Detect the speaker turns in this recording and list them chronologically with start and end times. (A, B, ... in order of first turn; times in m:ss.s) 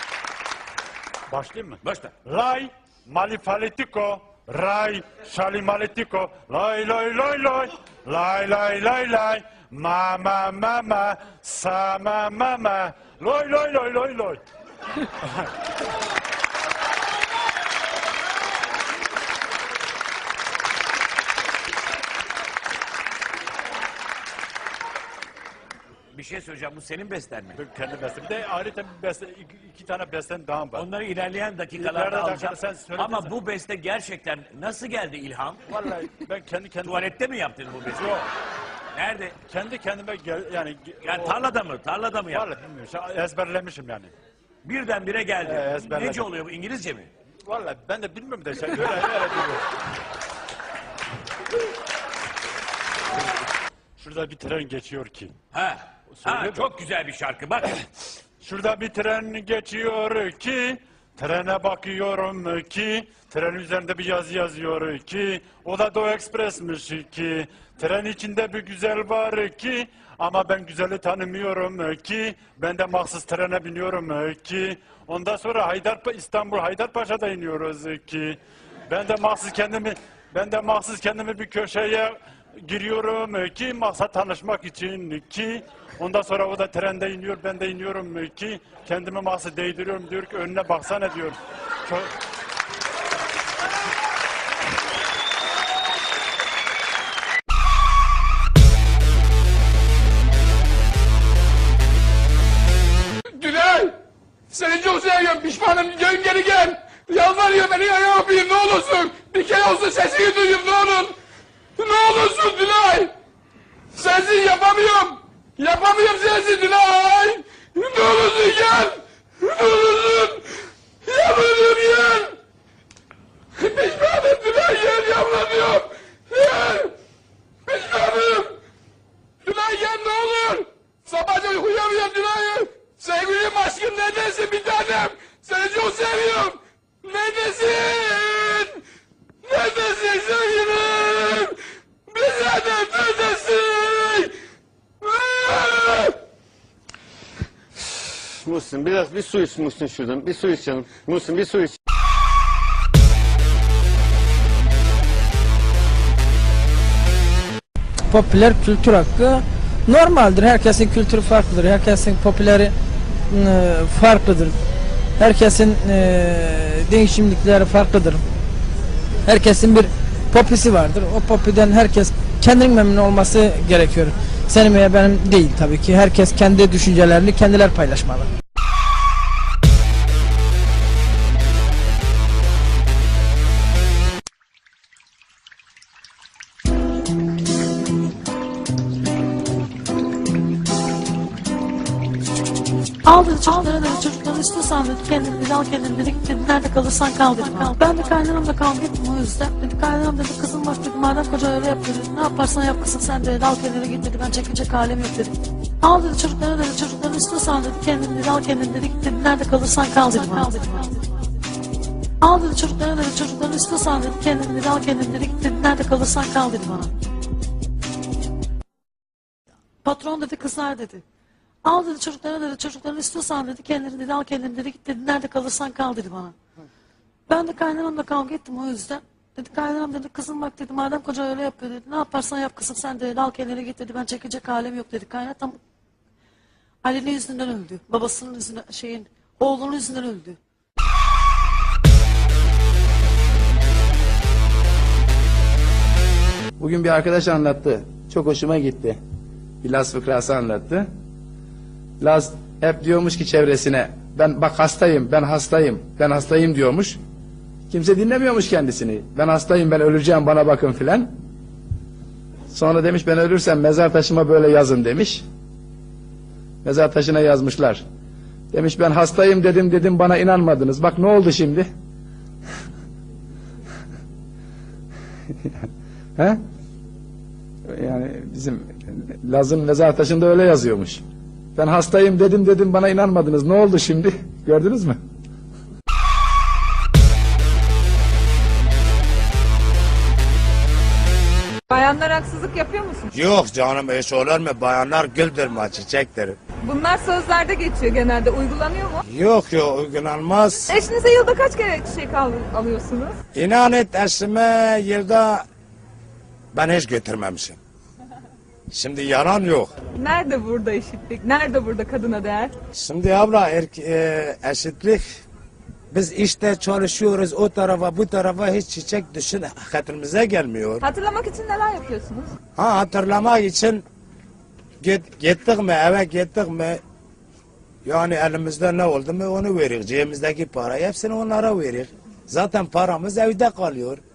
0:01.3-0:14.4 A
0:01.8-0:02.1 B
0:26.1-0:27.6 B
0:27.6-0:30.9 A
0:30.7-0:35.7 B
0:31.7-0:33.3 A
0:35.7-0:37.1 A
0:36.8-0:38.2 B
0:37.9-0:38.2 A
0:38.9-0:39.4 B
0:39.5-0:41.5 A
0:41.0-0:42.5 B
0:42.3-0:44.1 A
0:44.6-0:47.1 B
0:45.4-0:46.3 A
0:47.4-0:49.6 A
0:54.0-0:55.3 A
0:55.5-0:57.7 B
0:56.2-0:56.7 A
0:58.4-1:31.4 A
1:43.4-1:43.9 C
1:44.5-1:51.1 C
1:51.8-1:53.1 C
1:54.0-2:00.4 C
2:01.0-2:02.4 C
2:03.6-2:06.9 C
2:07.7-2:08.6 C
2:09.4-2:18.8 C
2:19.4-2:21.6 C
2:22.1-2:24.3 C
2:25.0-2:26.2 C
2:28.4-2:31.7 D
2:38.1-2:42.7 E
2:43.3-2:44.6 E
2:45.2-2:48.2 E
2:49.2-2:58.3 E
3:13.0-3:30.9 F
3:32.2-3:36.9 F
3:39.8-3:41.0 F
3:41.6-3:46.3 F
3:47.3-3:55.6 F
3:56.8-4:00.4 F
4:06.6-4:09.0 G
4:09.6-4:10.9 G
4:12.0-4:17.0 G
4:17.7-4:21.1 G
4:22.5-4:25.2 G
4:26.6-4:27.8 G
4:28.5-4:31.7 G
4:37.7-4:41.0 G
4:41.6-4:45.0 G
4:51.7-4:53.1 H
4:53.1-4:56.4 I
4:56.6-4:59.0 H
4:59.0-5:00.6 I
5:00.7-5:03.2 H
5:03.3-5:05.4 I
5:06.5-5:07.6 I
5:08.7-5:09.7 I
5:09.9-5:12.5 H
5:12.7-5:15.2 I
5:15.9-5:20.8 I
5:20.8-5:22.3 H
5:22.6-5:23.8 I
5:24.8-5:26.8 I
5:27.8-5:34.0 I